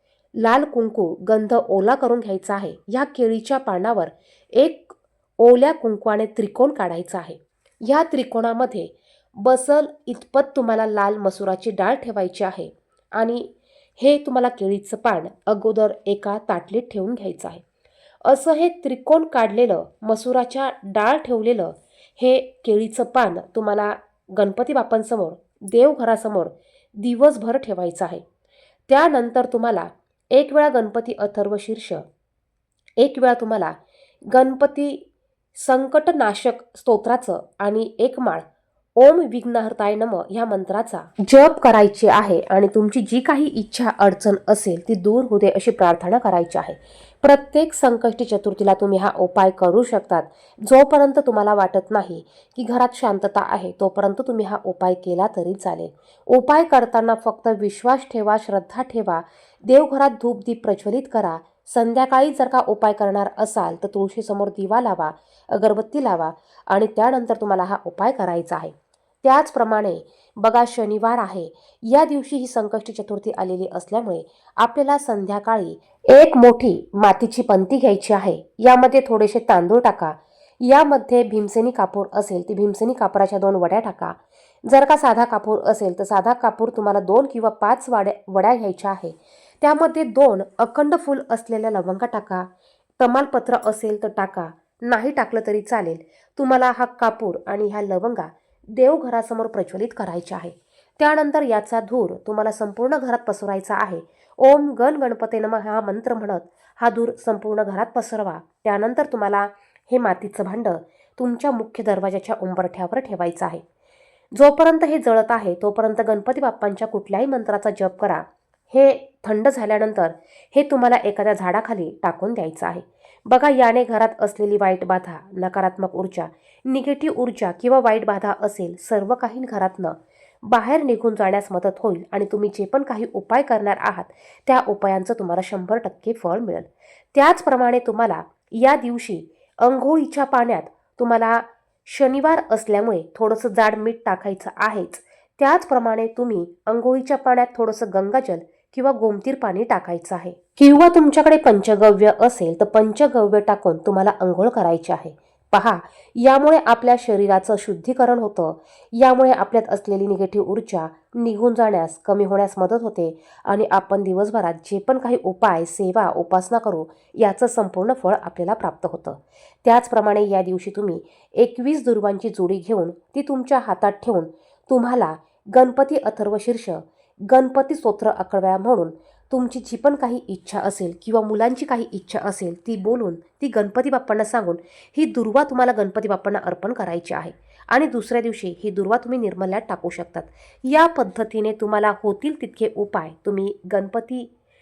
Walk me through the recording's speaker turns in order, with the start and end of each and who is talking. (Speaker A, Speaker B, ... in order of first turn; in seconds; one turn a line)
Speaker A: 0.4-17.6
Speaker A: 18.2-28.2
Speaker A: 28.9-32.0
Speaker A: 33.0-33.8
Speaker A: 34.3-35.0
Speaker A: 35.5-38.4
Speaker A: 39.0-92.5
Speaker A: 93.0-113.6
Speaker A: 114.3-194.3